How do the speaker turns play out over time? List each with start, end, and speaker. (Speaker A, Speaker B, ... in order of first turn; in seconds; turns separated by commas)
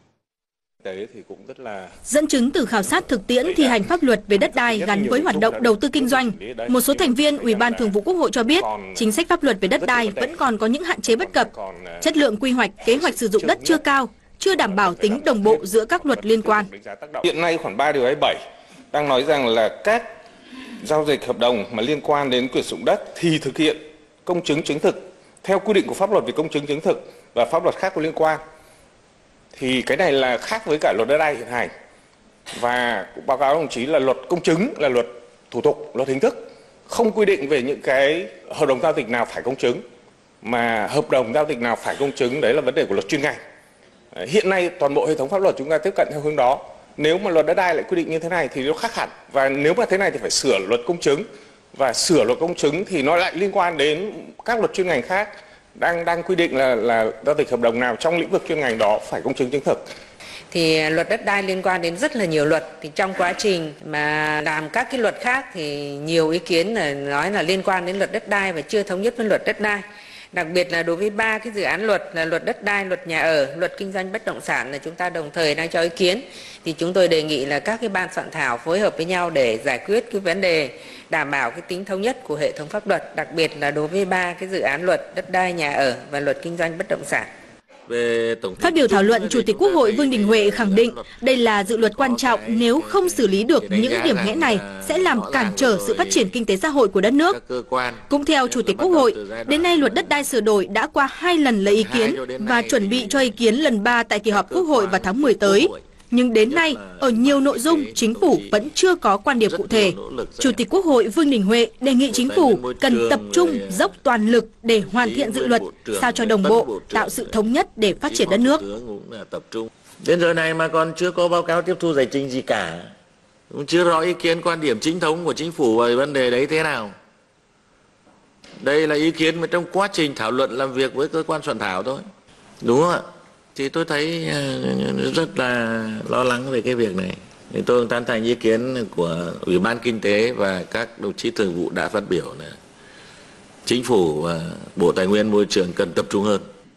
Speaker A: 0.8-1.9, Speaker B: 2.1-16.7, Speaker A: 3.4-8.0, Speaker A: 8.5-12.1, Speaker A: 12.8-13.8, Speaker A: 14.5-18.4, Speaker A: 18.9-20.1, Speaker A: 20.8-28.4, Speaker A: 29.5-31.7, Speaker A: 32.5-39.8, Speaker A: 40.4-43.4, Speaker A: 44.1-59.9, Speaker C: 60.5-87.3, Speaker D: 87.9-96.3, Speaker B: 88.6-97.4, Speaker D: 97.3-100.3, Speaker B: 98.1-118.6, Speaker D: 101.6-103.6, Speaker D: 104.2-105.9, Speaker D: 106.4-108.6, Speaker D: 109.4-110.6, Speaker D: 112.1-114.0, Speaker D: 114.7-117.4, Speaker D: 118.0-122.9, Speaker D: 123.5-127.0, Speaker D: 128.6-132.0, Speaker D: 132.6-142.6, Speaker D: 143.7-146.4